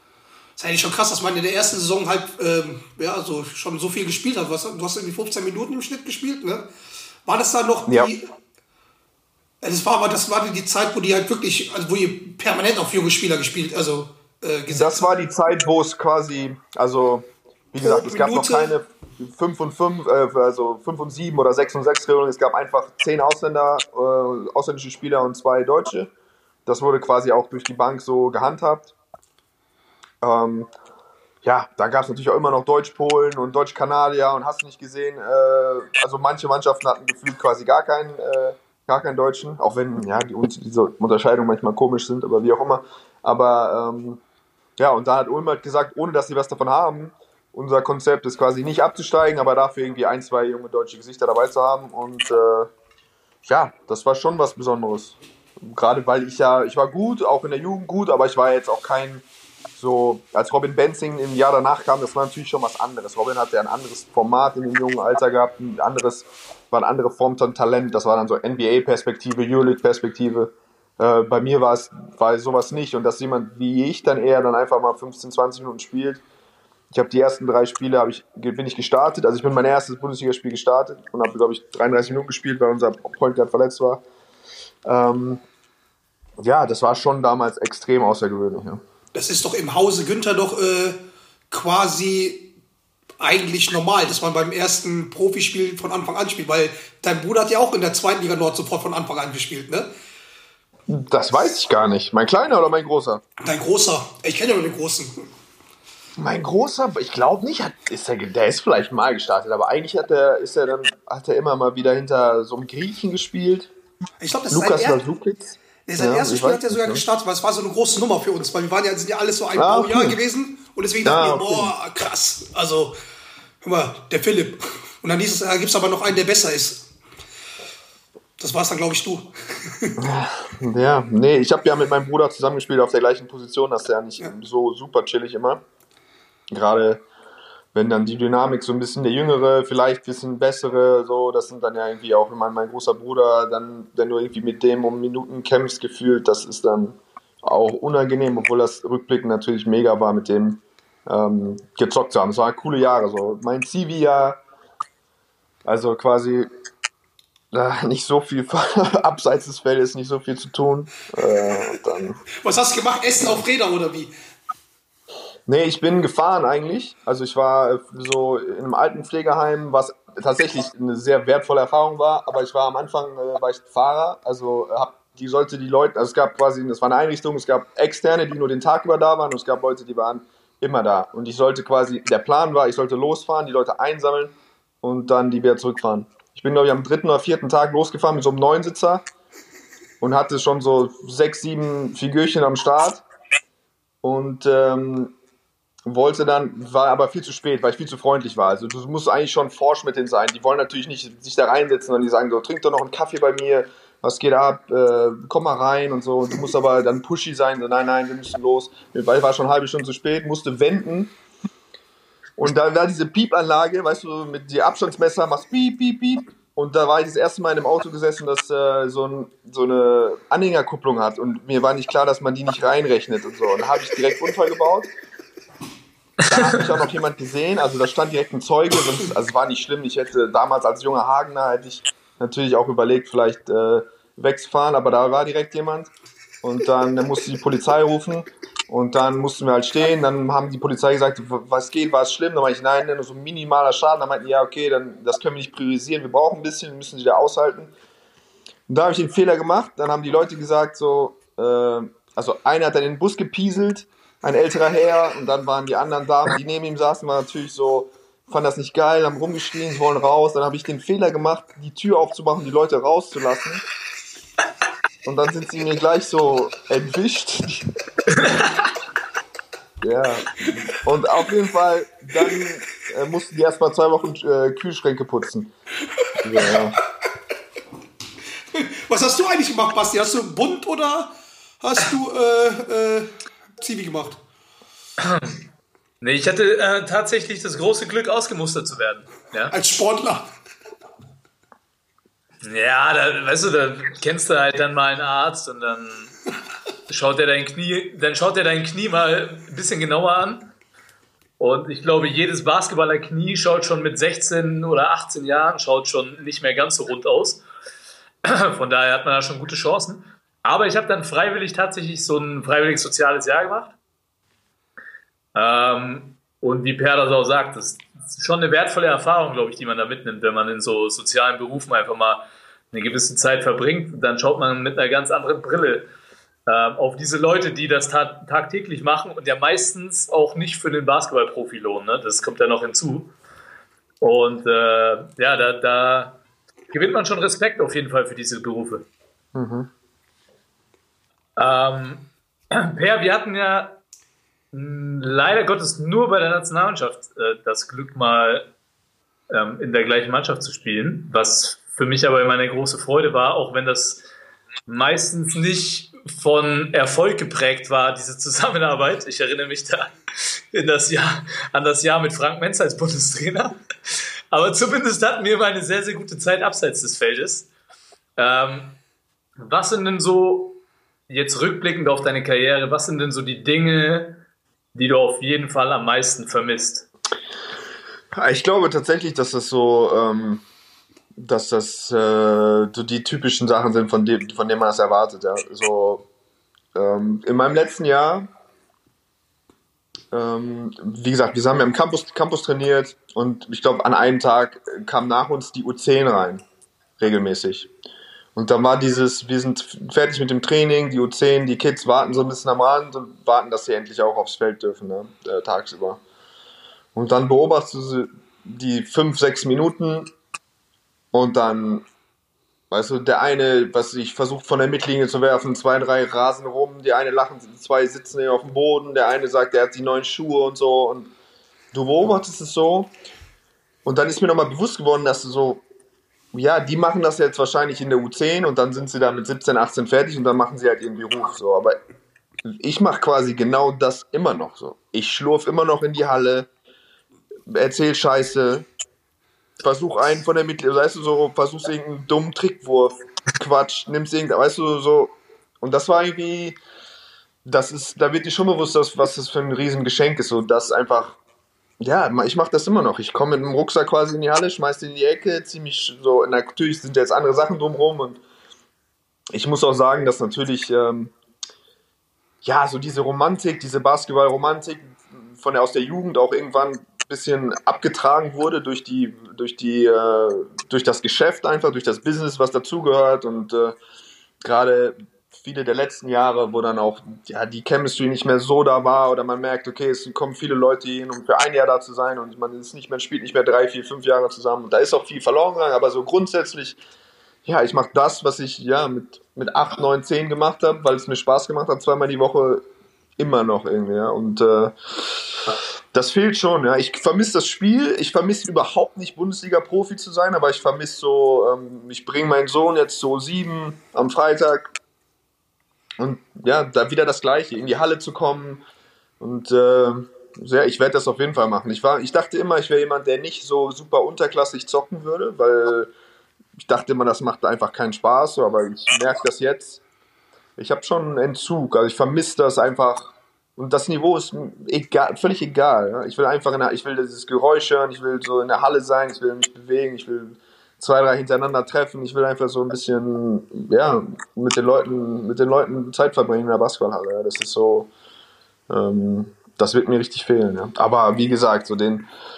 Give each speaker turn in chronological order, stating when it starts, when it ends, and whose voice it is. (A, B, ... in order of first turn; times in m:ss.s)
0:00.6-0:06.7 A
0:07.3-0:08.3 A
0:09.6-0:15.1 A
0:14.7-0:26.1 B
0:17.8-0:18.8 A
0:26.7-0:28.9 B
0:30.2-0:30.7 B
0:31.4-0:44.2 B
0:44.8-0:52.7 B
0:53.4-0:59.2 B
0:59.8-1:16.2 B
1:16.9-1:24.0 B
1:24.9-1:25.4 B
1:26.4-1:28.8 B
1:29.1-1:31.0 A
1:31.5-1:32.5 A
1:33.2-1:39.9 A
1:40.9-1:43.2 B
1:43.4-1:45.3 A
1:46.2-1:53.7 B
1:54.2-1:55.0 A
1:54.5-1:57.0 B
1:55.9-2:03.0 A
1:59.6-2:00.2 B
2:01.0-2:01.7 B
2:03.6-2:06.9 A
2:08.4-2:10.0 A
2:10.0-2:15.6 B
2:16.5-2:17.0 B
2:17.7-2:34.4 B
2:35.7-2:36.5 B
2:37.5-2:42.2 B
2:42.4-2:44.1 A
2:45.5-3:09.1 B
3:10.0-3:13.1 B
3:14.0-3:15.2 B
3:15.9-3:31.2 B
3:32.4-3:44.9 B
3:46.3-3:55.9 B
3:46.3-3:46.6 C
3:56.4-4:07.7 B
4:08.7-4:23.6 B
4:25.0-4:27.7 B
4:28.1-4:28.5 C
4:29.8-4:35.5 B
4:36.2-4:36.8 B
4:38.5-4:44.2 A
4:45.0-4:45.4 C
4:46.0-4:49.6 C
4:49.5-4:50.3 A
4:52.4-4:56.2 C
4:56.9-5:00.5 C
5:01.4-5:07.4 C
5:08.2-5:13.8 C
5:15.4-5:25.9 C
5:26.5-5:33.1 C
5:34.0-5:36.2 C
5:36.7-5:38.9 C
5:39.4-5:39.7 B
5:41.4-5:43.8 C
5:44.5-5:48.5 C
5:49.3-5:54.1 C
5:54.7-6:03.6 C
6:04.3-6:07.5 C
6:08.2-6:08.8 C
6:09.4-6:16.9 C
6:18.1-6:20.4 B
6:21.2-6:26.1 B
6:26.8-6:28.3 B
6:30.1-6:36.4 B
6:37.0-6:37.7 B
6:38.4-6:46.0 B
6:47.0-6:50.1 B
6:51.1-6:51.9 B
6:52.7-7:01.1 B
7:01.7-7:02.9 B
7:03.8-7:05.6 B
7:06.3-7:11.8 B
7:12.4-7:16.5 B
7:17.5-7:18.7 B
7:19.6-7:26.6 B
7:27.4-7:31.2 B
7:31.8-7:38.2 B
7:39.3-7:41.1 B
7:42.4-7:53.8 B
7:54.4-8:06.8 B
8:07.4-8:12.6 B
8:13.2-8:24.7 B
8:26.0-8:28.6 B
8:29.2-8:35.9 B
8:36.6-8:39.8 B
8:40.6-8:57.9 B
8:58.7-9:02.1 B